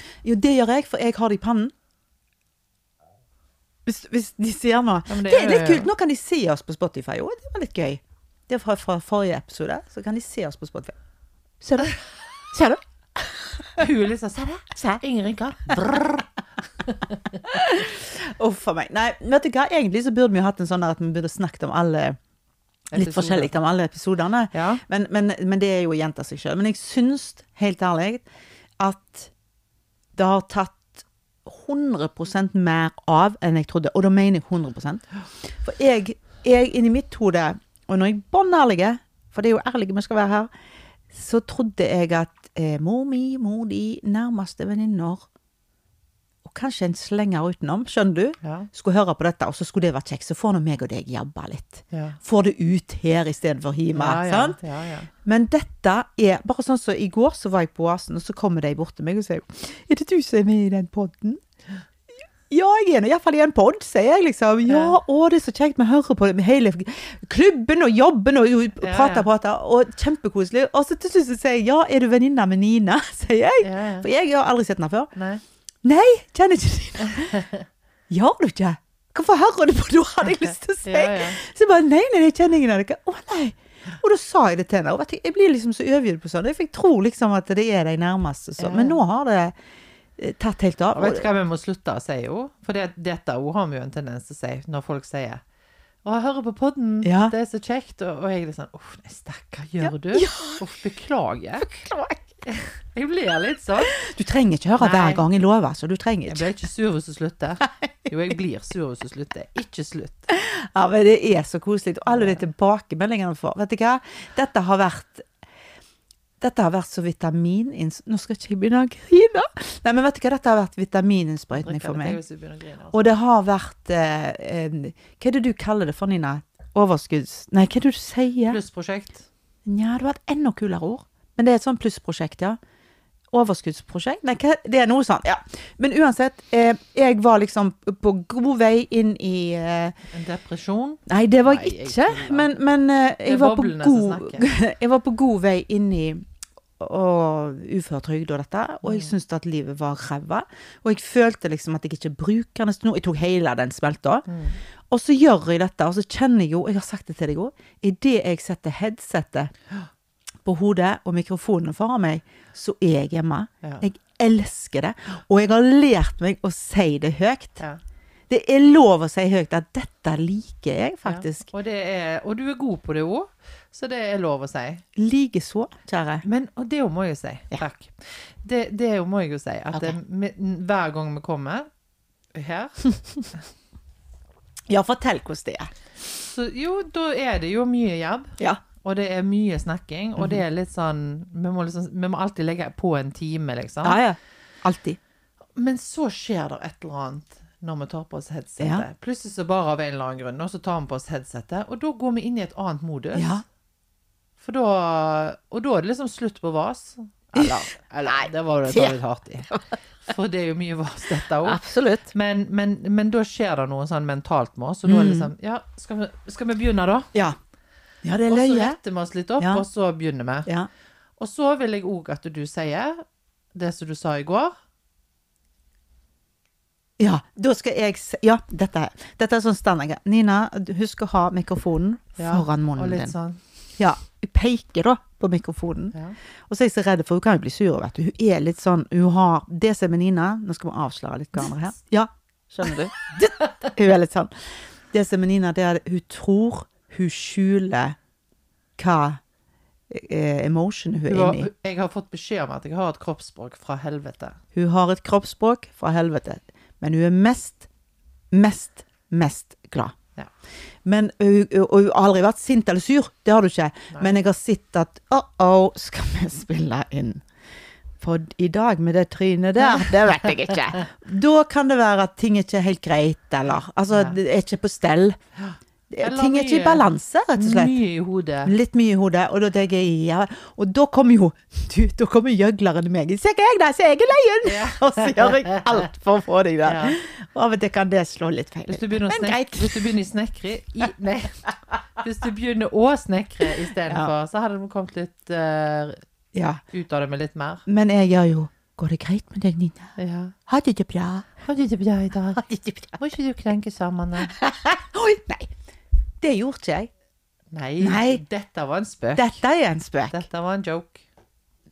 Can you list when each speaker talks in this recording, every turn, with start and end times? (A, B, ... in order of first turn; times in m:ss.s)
0:00.2-0:01.7 A
0:03.8-0:10.9 A
0:05.1-0:05.9 B
0:11.6-0:12.0 A
0:12.5-0:13.8 A
0:13.8-0:16.3 B
0:14.7-0:15.0 A
0:16.8-0:17.5 B
0:17.5-0:22.2 A
0:22.9-0:23.5 B
0:22.9-0:28.2 A
0:24.5-0:24.8 B
0:28.8-0:29.3 A
0:30.1-0:40.5 A
0:41.1-0:45.2 A
0:46.4-0:54.6 A
0:48.4-0:48.7 B
0:51.9-0:52.2 B
0:53.9-0:55.1 B
0:55.2-1:01.4 A
1:02.5-1:15.1 A
1:04.6-1:05.0 B
1:08.8-1:09.3 B
1:13.6-1:14.1 B
1:15.1-1:15.4 B
1:15.8-1:17.4 A
1:17.0-1:17.6 B
1:18.1-1:29.5 A
1:20.4-1:21.4 B
1:28.6-1:29.0 B
1:30.2-1:31.2 A
1:30.9-1:35.4 B
1:36.0-1:41.7 B
1:37.0-1:37.3 A
1:39.8-1:40.6 A
1:41.6-1:42.3 A
1:42.4-1:44.0 B
1:43.9-1:46.5 A
1:44.8-1:45.2 B
1:46.3-1:50.3 B
1:50.3-1:55.3 A
1:52.1-1:52.4 B
1:56.4-2:02.2 A
2:01.5-2:03.1 B
2:02.9-2:08.6 A
2:08.5-2:09.3 B
2:09.6-2:12.6 A
2:13.3-2:19.9 A
2:20.1-2:22.5 B
2:21.1-2:26.2 A
2:23.2-2:24.5 B
2:26.8-2:34.3 A
2:28.8-2:29.1 B
2:34.3-2:34.6 B
2:34.9-2:39.5 A
2:40.4-2:47.6 A
2:43.6-2:43.9 B
2:48.3-2:51.5 A
2:51.0-2:54.8 B
2:55.0-2:56.2 A
2:56.2-3:01.7 B
3:02.3-3:02.9 B
3:04.7-3:05.7 A
3:06.1-3:14.0 B
3:13.8-3:15.0 A
3:15.6-3:23.4 B
3:18.6-3:18.8 A
3:23.1-3:23.4 A
3:24.4-3:37.1 B
3:27.4-3:29.0 A
3:31.4-3:32.1 A
3:34.8-3:35.3 A
3:38.0-3:38.8 A
3:38.3-3:40.5 B
3:41.2-3:43.0 B
3:43.5-3:44.5 B
3:47.0-3:53.1 A
3:52.2-3:53.4 B
3:53.8-3:56.0 A
3:56.5-4:08.0 A
4:03.4-4:03.7 B
4:08.8-4:09.2 A
4:09.9-4:11.5 A
4:11.1-4:14.4 B
4:14.5-4:17.6 A
4:18.3-4:19.9 A
4:20.8-4:27.2 A
4:28.0-4:35.2 A
4:33.9-4:34.2 B
4:35.4-4:36.8 B
4:35.9-4:37.7 A
4:37.4-4:38.5 B
4:38.4-4:49.9 A
4:44.4-4:45.9 B
4:46.6-4:47.0 B
4:48.7-4:56.0 B
4:56.3-4:56.6 A
4:56.7-4:57.6 B
4:57.7-4:59.9 A
5:00.0-5:00.4 B
5:00.5-5:01.3 A
5:01.4-5:04.4 B
5:02.5-5:02.9 A
5:04.3-5:05.5 A
5:06.2-5:06.9 A
5:07.5-5:09.3 B
5:07.8-5:08.2 A
5:09.2-5:10.2 A
5:10.1-5:11.0 B